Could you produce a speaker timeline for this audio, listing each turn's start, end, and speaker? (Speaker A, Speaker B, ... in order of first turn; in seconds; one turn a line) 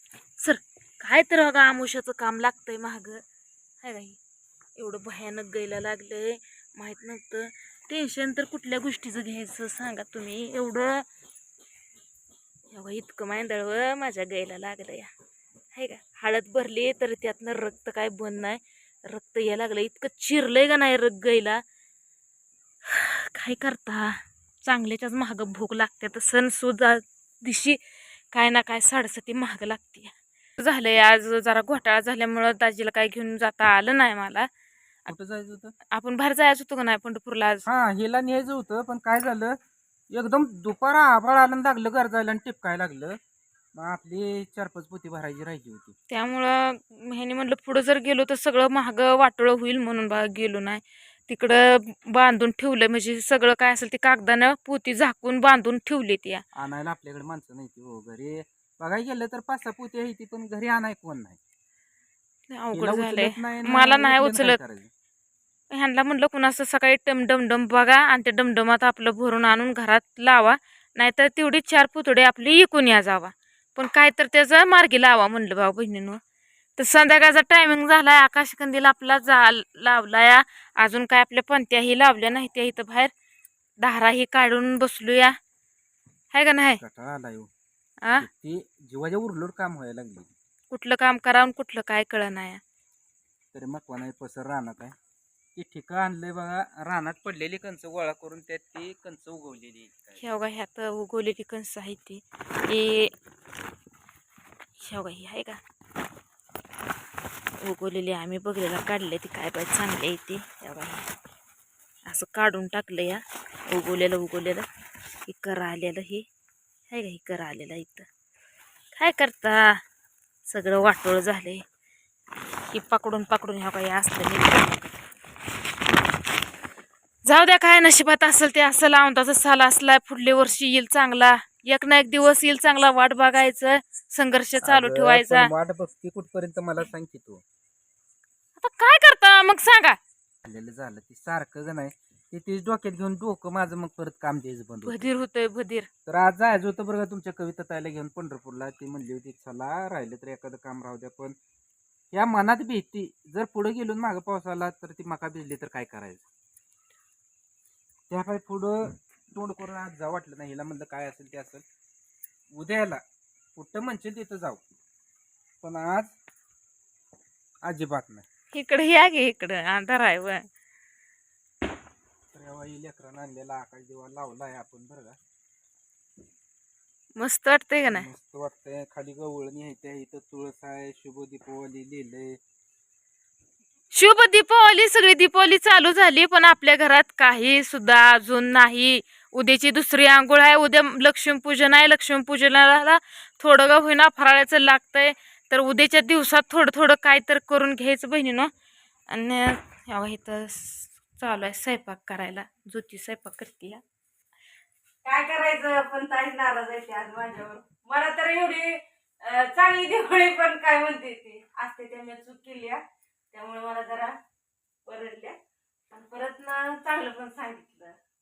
Speaker A: 0.4-3.2
Speaker A: 3.8-4.2
Speaker A: 4.8-11.0
Speaker A: 12.7-15.1
Speaker A: 15.7-21.6
Speaker A: 22.9-27.8
Speaker A: 28.3-34.5
Speaker B: 35.1-35.8
Speaker A: 35.9-37.7
Speaker B: 37.7-39.6
Speaker B: 40.1-43.2
Speaker B: 43.8-46.0
Speaker A: 46.1-56.4
Speaker B: 56.5-61.4
Speaker A: 62.5-64.6
Speaker B: 62.7-64.9
Speaker A: 65.7-76.2
Speaker A: 76.8-83.1
Speaker A: 83.8-85.4
Speaker A: 86.3-86.8
Speaker B: 86.8-87.5
Speaker B: 88.2-90.3
Speaker A: 90.7-92.6
Speaker B: 93.5-95.0
Speaker B: 95.6-100.2
Speaker A: 100.2-103.1
Speaker A: 104.8-105.6
Speaker A: 107.6-111.1
Speaker A: 112.1-114.7
Speaker A: 115.3-116.2
Speaker A: 116.9-118.1
Speaker A: 119.0-119.8
Speaker A: 120.5-121.6
Speaker A: 122.7-125.0
Speaker A: 127.2-135.5
Speaker B: 134.6-137.4
Speaker A: 138.6-140.0
Speaker B: 140.4-145.1
Speaker A: 144.9-145.9
Speaker B: 146.1-151.3
Speaker B: 152.1-156.3
Speaker B: 158.1-161.7
Speaker B: 162.5-163.0
Speaker B: 163.6-164.7
Speaker B: 165.6-166.2
Speaker B: 167.7-168.2
Speaker A: 168.5-170.4
Speaker B: 172.3-175.2
Speaker A: 177.2-178.1
Speaker B: 177.9-182.4
Speaker A: 183.9-198.5
Speaker A: 199.1-203.8
Speaker C: 205.0-214.1
Speaker C: 214.8-215.4
Speaker C: 215.9-217.9